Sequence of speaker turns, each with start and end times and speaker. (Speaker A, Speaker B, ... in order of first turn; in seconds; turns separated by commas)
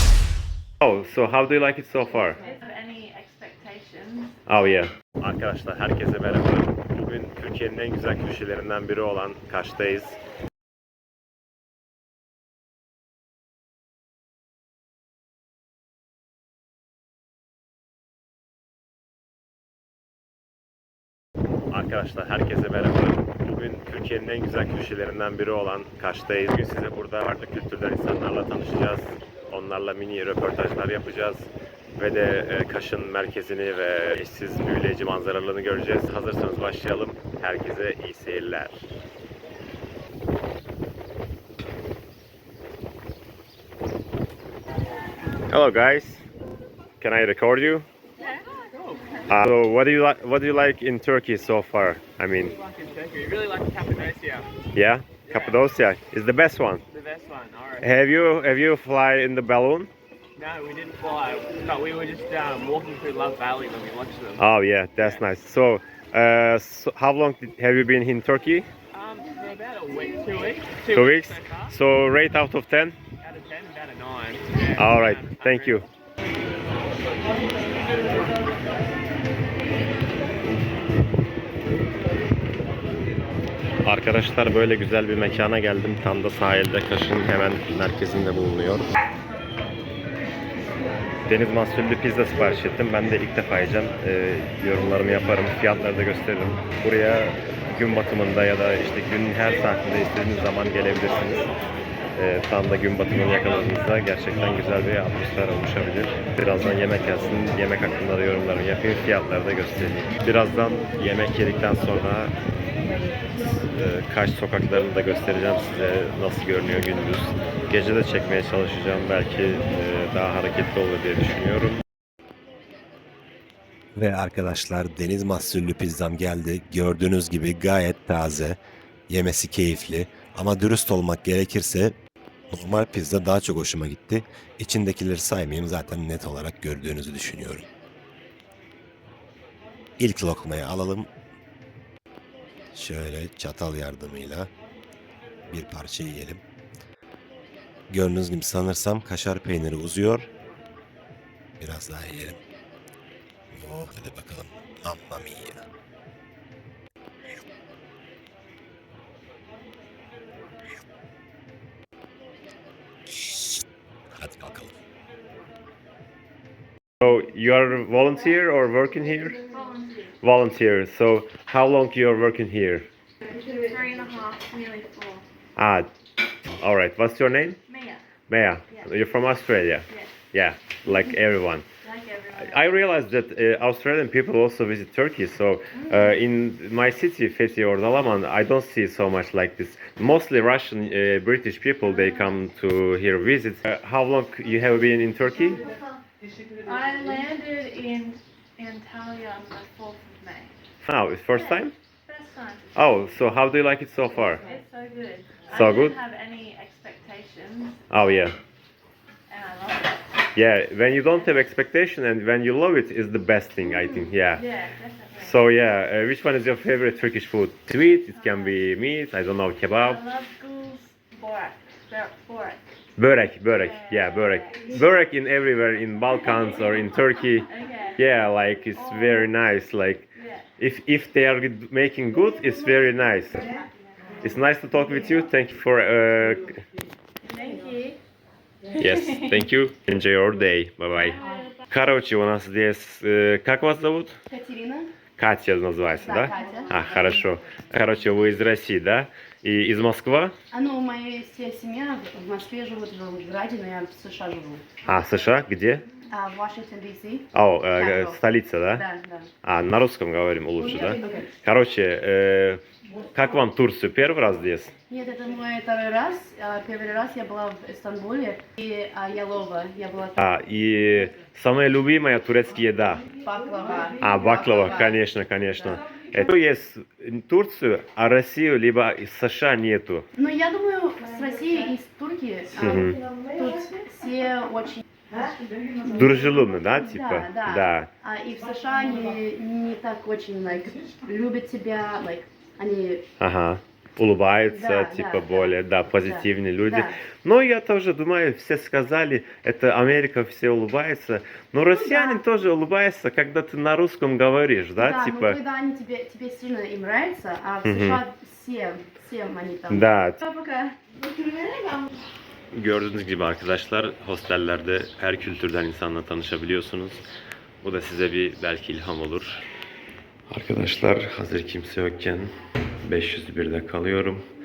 Speaker A: 0.8-2.4, Speaker B: 2.4-4.4, Speaker A: 4.5-10.2, Speaker A: 21.7-38.8, Speaker A: 45.5-46.2, Speaker A: 47.0-47.9, Speaker C: 48.2-49.0, Speaker A: 49.3-52.5, Speaker C: 52.5-54.5, Speaker A: 54.7-56.8, Speaker C: 55.3-55.6, Speaker C: 56.9-57.9, Speaker A: 57.8-59.9, Speaker C: 60.4-64.4, Speaker A: 64.4-68.7, Speaker C: 68.9-71.7, Speaker A: 70.8-73.0, Speaker C: 73.2-75.8, Speaker A: 74.7-75.8, Speaker A: 83.8-88.9, Speaker A: 91.3-101.5, Speaker A: 102.1-112.3, Speaker A: 113.4-121.8, Speaker D: 123.9-131.9, Speaker D: 132.5-137.7, Speaker D: 140.0-141.1, Speaker D: 142.7-144.5, Speaker D: 145.5-146.4, Speaker D: 147.9-150.3, Speaker D: 151.6-152.4, Speaker D: 153.5-155.6, Speaker D: 163.1-164.7, Speaker A: 167.0-169.4, Speaker B: 169.5-170.1, Speaker A: 170.2-172.9, Speaker B: 173.2-175.2, Speaker A: 175.6-175.9, Speaker A: 176.6-177.6, Speaker B: 177.7-178.0, Speaker A: 178.3-181.6, Speaker B: 181.8-182.6, Speaker A: 182.4-195.6, Speaker B: 185.8-186.2, Speaker B: 196.6-200.5, Speaker A: 200.8-201.7, Speaker B: 201.3-202.7, Speaker A: 202.7-204.4, Speaker B: 204.4-207.9, Speaker A: 205.5-206.0, Speaker A: 207.9-208.3, Speaker B: 209.3-210.0, Speaker A: 210.3-214.4, Speaker B: 211.1-211.4, Speaker B: 214.2-215.4, Speaker A: 215.2-220.0, Speaker B: 218.0-218.6, Speaker B: 219.7-222.6, Speaker A: 223.0-230.1, Speaker B: 223.5-224.6, Speaker B: 227.4-228.1, Speaker B: 228.7-229.3, Speaker B: 230.2-230.4, Speaker A: 230.6-233.5, Speaker A: 234.2-236.6, Speaker B: 237.2-238.0, Speaker A: 238.7-241.2, Speaker B: 241.0-241.6, Speaker A: 241.7-244.2, Speaker E: 244.3-244.9, Speaker A: 245.2-250.3, Speaker E: 246.0-247.0, Speaker E: 250.5-254.6, Speaker A: 254.8-255.8, Speaker E: 256.1-259.3, Speaker A: 257.3-258.8, Speaker A: 259.4-262.6, Speaker E: 260.6-261.3, Speaker A: 263.1-264.7, Speaker E: 264.9-270.3, Speaker A: 270.2-273.0, Speaker E: 273.2-275.0, Speaker A: 274.0-280.1, Speaker E: 280.1-284.8, Speaker A: 282.6-283.0, Speaker A: 285.8-287.9, Speaker E: 286.8-293.1, Speaker A: 293.2-305.4, Speaker E: 294.5-296.9, Speaker E: 301.7-302.2, Speaker E: 304.8-310.5, Speaker A: 307.6-308.0, Speaker A: 309.7-310.2, Speaker A: 312.5-317.0, Speaker A: 317.6-319.4, Speaker A: 320.3-324.2